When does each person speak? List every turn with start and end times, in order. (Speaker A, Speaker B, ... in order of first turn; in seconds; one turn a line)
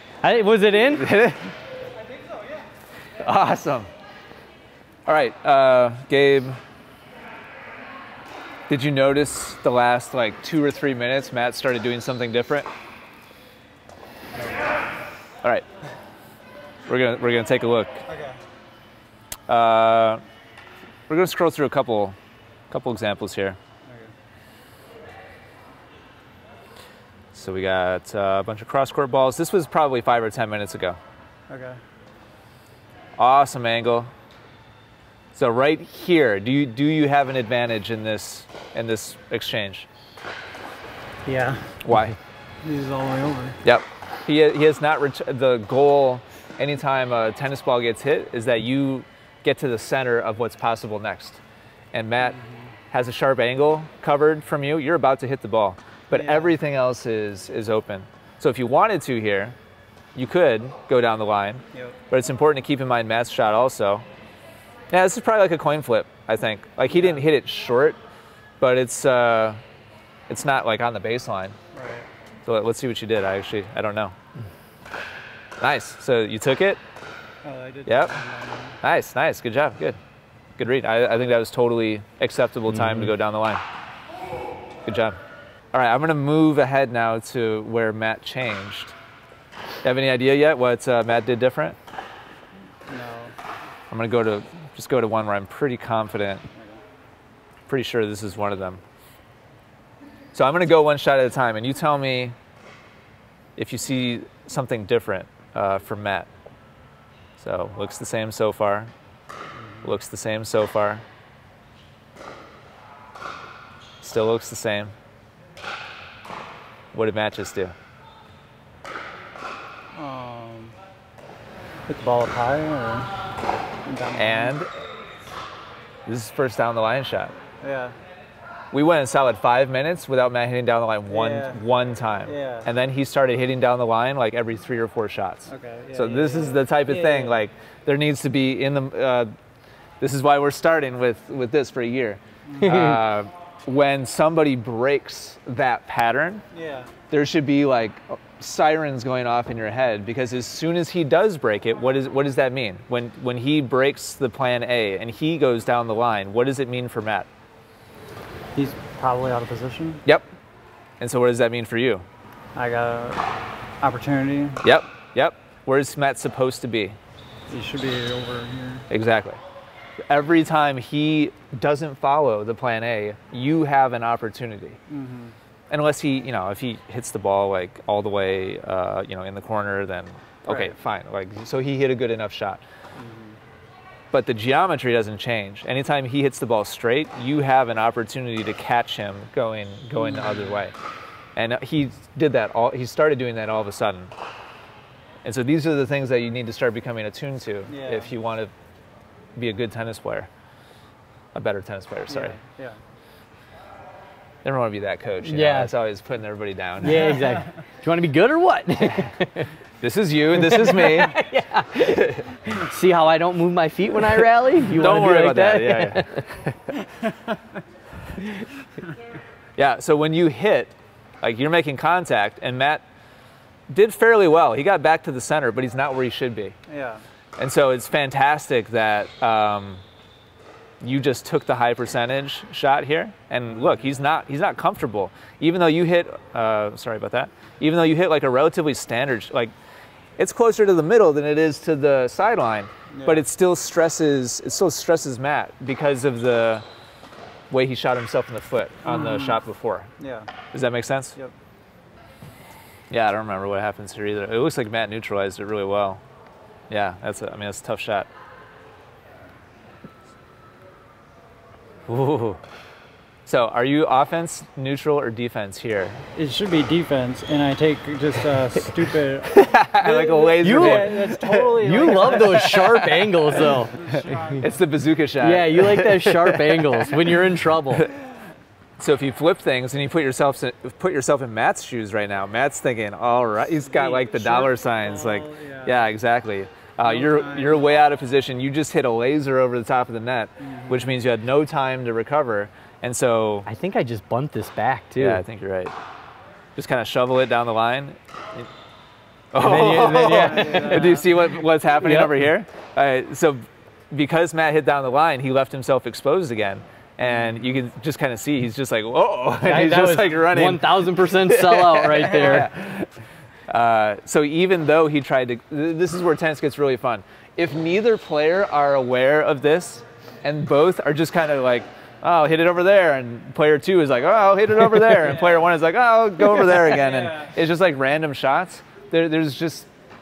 Speaker A: 0.2-1.1
Speaker B: 0.9-1.5
Speaker B: 3.2-3.9
Speaker B: 5.0-6.6
Speaker B: 8.7-12.7
Speaker B: 16.9-18.0
Speaker C: 18.1-18.4
Speaker B: 19.5-20.2
Speaker B: 21.1-22.1
Speaker B: 22.7-23.6
Speaker C: 23.9-24.1
Speaker B: 27.3-31.0
Speaker C: 31.5-31.8
Speaker B: 33.2-34.1
Speaker B: 35.3-39.9
Speaker C: 41.2-41.8
Speaker B: 41.8-42.2
Speaker C: 42.6-43.6
Speaker B: 43.6-51.4
Speaker B: 51.9-52.4
Speaker B: 52.9-59.5
Speaker C: 56.1-56.5
Speaker B: 60.1-64.0
Speaker B: 64.9-68.0
Speaker C: 66.9-67.2
Speaker B: 68.6-69.6
Speaker B: 70.3-71.6
Speaker C: 71.7-72.1
Speaker B: 72.4-74.1
Speaker B: 75.6-76.8
Speaker C: 77.4-78.8
Speaker B: 77.8-78.2
Speaker B: 78.8-80.0
Speaker B: 80.6-83.6
Speaker B: 84.8-85.2
Speaker B: 85.7-88.9
Speaker B: 89.8-91.8
Speaker C: 92.9-93.3
Speaker B: 93.9-96.4
Speaker C: 96.5-96.8
Speaker B: 97.7-98.8
Speaker B: 100.3-102.3
Speaker B: 103.6-106.3
Speaker B: 107.4-108.9
Speaker B: 109.8-111.0
Speaker B: 114.0-114.9
Speaker B: 116.9-117.7
Speaker C: 119.9-120.8
Speaker C: 121.9-123.1
Speaker C: 123.8-124.6
Speaker B: 124.1-124.7
Speaker B: 126.0-127.3
Speaker C: 127.6-128.0
Speaker B: 128.7-139.3
Speaker C: 131.1-131.6
Speaker C: 132.2-132.7
Speaker C: 135.5-137.4
Speaker B: 140.0-146.4
Speaker C: 146.5-146.9
Speaker B: 147.1-157.3
Speaker C: 158.5-160.0
Speaker B: 161.0-162.1
Speaker C: 162.5-163.3
Speaker C: 163.8-164.6
Speaker B: 164.6-167.0
Speaker C: 167.5-168.9
Speaker B: 168.9-169.4
Speaker B: 170.1-174.8
Speaker C: 174.9-175.3
Speaker B: 175.7-182.6
Speaker C: 180.5-180.7
Speaker C: 182.9-183.4
Speaker B: 184.1-190.7
Speaker C: 190.0-190.6
Speaker B: 191.3-194.1
Speaker B: 195.2-198.5
Speaker C: 197.7-198.1
Speaker B: 199.3-200.3
Speaker B: 201.3-202.3
Speaker C: 202.1-202.8
Speaker B: 204.4-207.2
Speaker A: 205.2-205.7
Speaker A: 206.8-209.5
Speaker C: 207.0-207.3
Speaker B: 209.8-211.2
Speaker A: 210.4-216.3
Speaker B: 211.9-212.3
Speaker B: 214.7-216.7
Speaker B: 219.6-222.8
Speaker B: 223.7-226.5
Speaker C: 226.7-227.0
Speaker B: 227.4-229.8
Speaker B: 230.8-239.5
Speaker C: 233.5-233.9
Speaker B: 240.2-246.6
Speaker C: 242.9-243.2
Speaker B: 247.5-249.9
Speaker C: 248.8-249.4
Speaker C: 250.0-250.3
Speaker B: 250.5-251.2
Speaker B: 252.9-256.0
Speaker B: 256.7-258.1
Speaker B: 261.9-262.4
Speaker B: 263.2-266.1
Speaker C: 266.1-274.6
Speaker B: 269.3-276.9
Speaker A: 270.4-273.8
Speaker A: 275.2-277.9
Speaker B: 278.8-293.5
Speaker C: 283.6-285.9
Speaker C: 286.8-287.7
Speaker C: 290.4-290.9
Speaker A: 293.4-295.2
Speaker B: 295.0-295.7
Speaker B: 296.6-298.5
Speaker B: 299.3-312.9
Speaker A: 299.3-300.9
Speaker C: 299.9-301.2
Speaker A: 301.8-302.3
Speaker C: 307.0-307.4
Speaker A: 309.4-312.5
Speaker B: 313.5-329.7
Speaker C: 325.1-325.4
Speaker C: 326.7-327.3